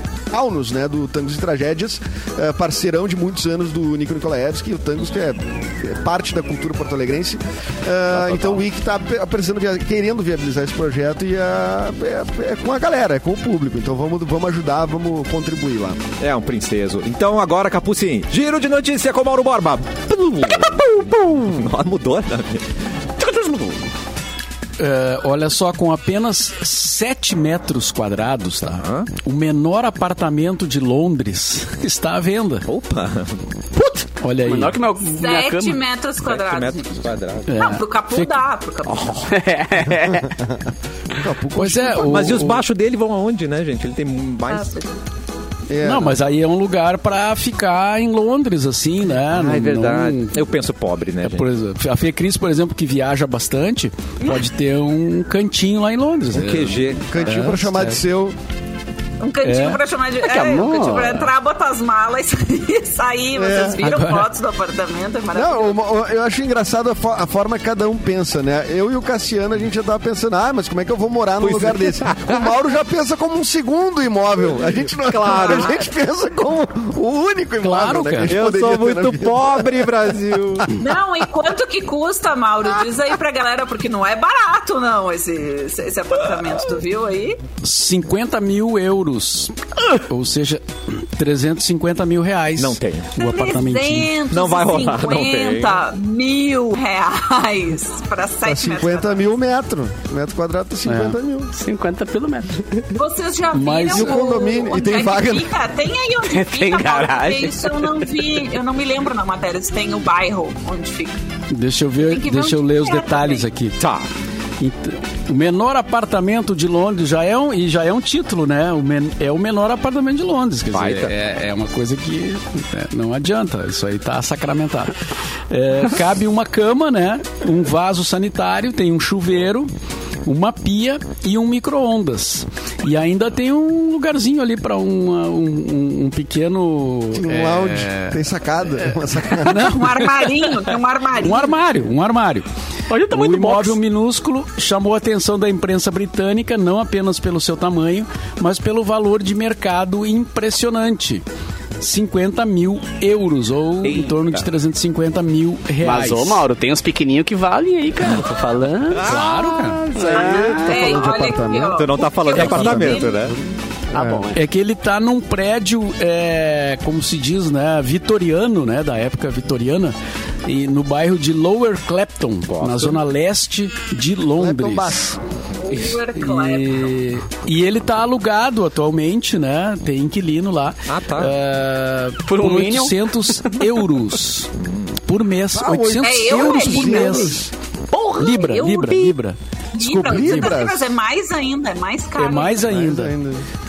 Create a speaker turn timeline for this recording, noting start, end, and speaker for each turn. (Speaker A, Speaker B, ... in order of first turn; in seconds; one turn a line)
Speaker A: 0.3-16.0
Speaker B: 8.1-8.6
Speaker B: 16.2-22.7
Speaker C: 23.2-23.9
Speaker D: 24.8-32.7
Speaker B: 28.8-29.1
Speaker B: 32.7-33.4
Speaker D: 34.0-34.8
Speaker C: 34.4-35.8
Speaker E: 35.0-39.3
Speaker B: 36.2-37.7
Speaker D: 37.5-38.3
Speaker B: 38.9-39.3
Speaker C: 39.3-40.3
Speaker A: 40.3-40.6
Speaker A: 41.1-42.3
Speaker D: 41.5-42.6
Speaker B: 42.0-44.7
Speaker E: 44.5-44.9
Speaker A: 45.7-46.2
Speaker D: 45.8-50.4
Speaker B: 49.3-51.5
Speaker D: 51.2-58.0
Speaker B: 56.3-57.0
Speaker A: 57.1-58.3
Speaker E: 59.2-65.8
Speaker D: 59.4-59.8
Speaker C: 60.2-61.3
Speaker A: 63.4-63.8
Speaker D: 63.8-64.3
Speaker A: 65.3-80.3
Speaker B: 71.4-72.5
Speaker B: 75.0-75.9
Speaker E: 75.4-75.6
Speaker D: 77.6-78.3
Speaker B: 78.3-80.7
Speaker E: 80.8-87.4
Speaker D: 87.6-94.1
Speaker B: 92.6-93.1
Speaker E: 93.2-99.3
Speaker B: 94.3-95.8
Speaker A: 98.4-101.5
Speaker D: 100.8-101.2
Speaker C: 101.5-102.8
Speaker E: 102.9-111.2
Speaker D: 103.5-104.2
Speaker A: 103.9-105.5
Speaker C: 106.2-108.3
Speaker D: 111.5-113.8
Speaker E: 112.0-113.5
Speaker B: 113.8-114.1
Speaker D: 114.6-129.7
Speaker B: 120.7-121.1
Speaker D: 130.2-138.3
Speaker A: 137.1-139.7
Speaker D: 139.4-140.3
Speaker E: 139.5-141.5
Speaker D: 141.2-142.5
Speaker C: 142.9-143.8
Speaker D: 143.1-151.2
Speaker D: 151.8-156.4
Speaker B: 153.9-154.4
Speaker C: 155.8-159.2
Speaker B: 158.9-160.6
Speaker D: 158.9-160.0
Speaker C: 159.9-161.0
Speaker A: 160.1-161.9
Speaker E: 160.1-163.3
Speaker B: 161.7-163.3
Speaker A: 162.6-163.0
Speaker C: 163.9-164.4
Speaker A: 163.9-164.2
Speaker D: 164.3-175.2
Speaker B: 172.5-173.0
Speaker A: 174.4-175.2
Speaker E: 175.6-176.9
Speaker D: 176.1-184.5
Speaker B: 180.9-181.3
Speaker C: 182.3-183.5
Speaker B: 184.6-184.9
Speaker D: 185.0-187.5
Speaker A: 185.5-187.4
Speaker E: 186.0-187.4
Speaker C: 187.9-188.5
Speaker D: 188.2-190.6
Speaker E: 188.3-189.1
Speaker E: 189.7-192.7
Speaker A: 190.0-190.9
Speaker D: 192.2-193.1
Speaker A: 192.7-193.4